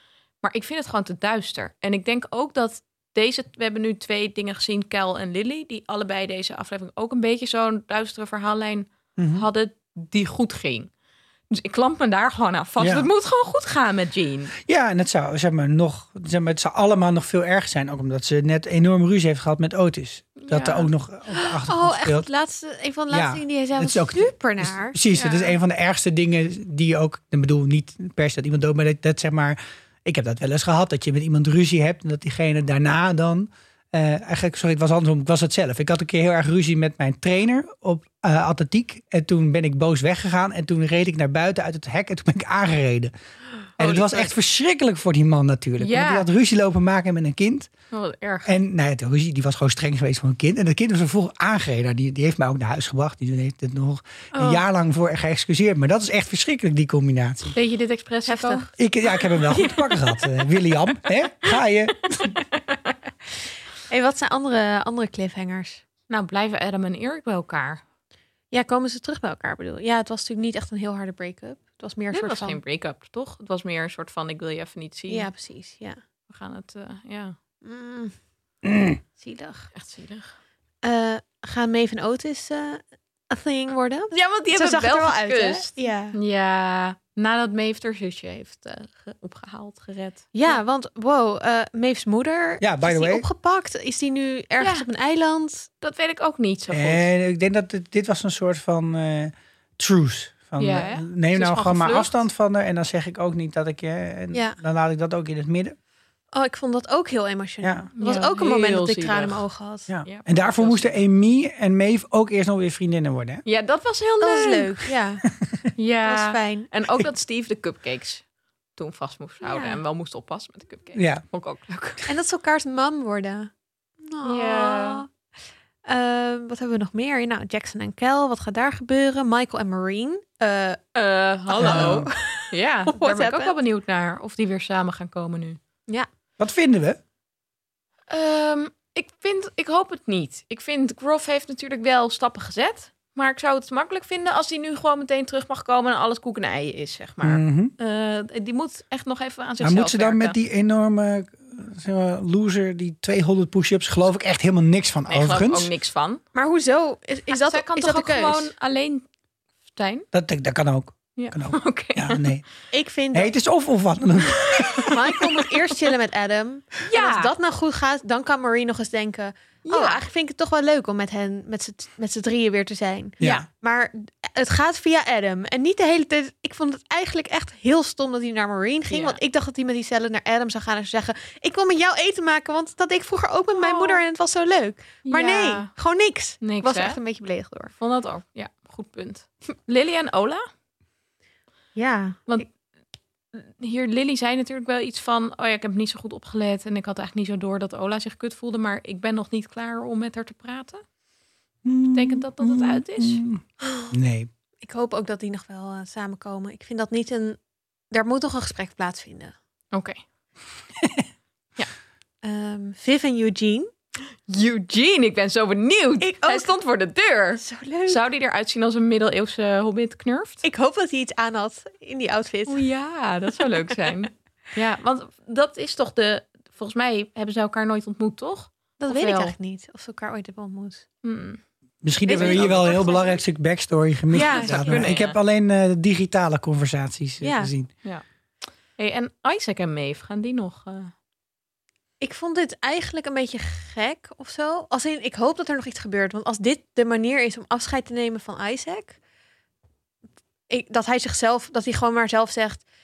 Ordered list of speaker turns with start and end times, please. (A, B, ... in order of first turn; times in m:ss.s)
0:00.4-0:10.9 A
0:09.2-0:09.5 B
0:11.5-0:14.5 A
0:12.8-0:13.1 B
0:14.6-0:22.3 B
0:20.4-0:20.9 A
0:21.3-0:25.0 C
0:23.1-0:43.1 B
0:25.1-0:25.6 A
0:43.8-0:44.3 A
0:43.8-0:47.7 B
0:45.8-0:46.3 A
0:47.9-0:48.5 A
0:48.4-0:57.6 B
0:54.4-0:54.6 A
0:57.5-0:58.7 A
0:58.3-0:58.7 C
0:58.8-1:02.4 B
0:59.5-0:59.8 A
1:02.2-1:02.9 A
1:03.9-1:05.8 C
1:06.1-1:07.8 A
1:08.5-1:12.6 C
1:12.1-1:15.3 A
1:15.1-1:16.0 C
1:16.3-1:17.4 A
1:17.6-1:18.2 C
1:18.6-1:19.0 B
1:19.2-1:19.7 C
1:19.7-1:20.3 A
1:20.8-1:26.2 C
1:24.1-1:30.6 A
1:30.3-1:35.7 C
1:32.6-1:33.2 B
1:34.6-1:34.9 A
1:35.8-1:37.1 A
1:36.7-1:45.8 B
1:40.6-1:42.2 A
1:44.3-1:44.6 C
1:46.3-1:49.9 C
1:47.6-1:47.9 B
1:48.0-1:49.4 A
1:49.9-1:53.4 B
1:50.0-1:51.0 A
1:53.4-1:54.9 A
1:54.2-1:55.3 C
1:55.8-1:58.2 A
1:56.0-1:56.7 C
1:58.8-2:02.0 A
1:59.4-1:59.8 C
2:01.0-2:01.2 B
2:02.1-2:03.5 C
2:04.0-2:05.1 C
2:04.2-2:05.0 A
2:05.9-2:10.8 C
2:11.0-2:15.6 A
2:11.5-2:13.6 C
2:11.6-2:12.1 B
2:16.4-2:17.0 B
2:18.1-2:30.4 A
2:27.2-2:27.7 B
2:29.6-2:35.7 B
2:35.1-2:36.2 A
2:36.3-2:38.5 C
2:37.3-2:39.0 A
2:39.7-2:40.1 A
2:40.1-2:42.4 B
2:41.2-2:42.3 A
2:42.7-2:43.3 C
2:43.1-2:45.1 B
2:44.3-2:45.7 A
2:44.9-3:07.7 C
2:46.9-2:47.3 A
2:49.7-2:50.0 A
2:53.2-2:53.5 B
2:53.2-2:53.5 A
2:58.9-2:59.2 A
3:03.6-3:04.0 A
3:05.1-3:05.7 A
3:06.4-3:07.0 A
3:07.8-3:10.5 A
3:11.8-3:12.4 C
3:13.3-3:20.8 A
3:21.6-3:24.3 B
3:21.9-3:23.2 A
3:23.6-3:23.9 C
3:24.6-3:27.4 C
3:27.9-3:29.3 C
3:29.7-3:30.0 A
3:30.8-3:31.1 B
3:32.2-3:33.7 C
3:34.3-3:40.4 A
3:36.0-3:36.5 C
3:37.4-3:38.0 C
3:40.4-3:42.6 C
3:42.5-3:49.4 A
3:48.8-3:50.8 C
3:51.0-3:51.4 A
3:51.8-3:57.7 B
3:52.1-3:53.2 C
3:52.1-3:52.8 A
3:54.1-3:54.9 C
3:54.1-3:55.2 A
3:57.2-3:57.5 C
3:58.8-4:00.9 A
4:02.0-4:09.0 C
4:10.5-4:12.6 C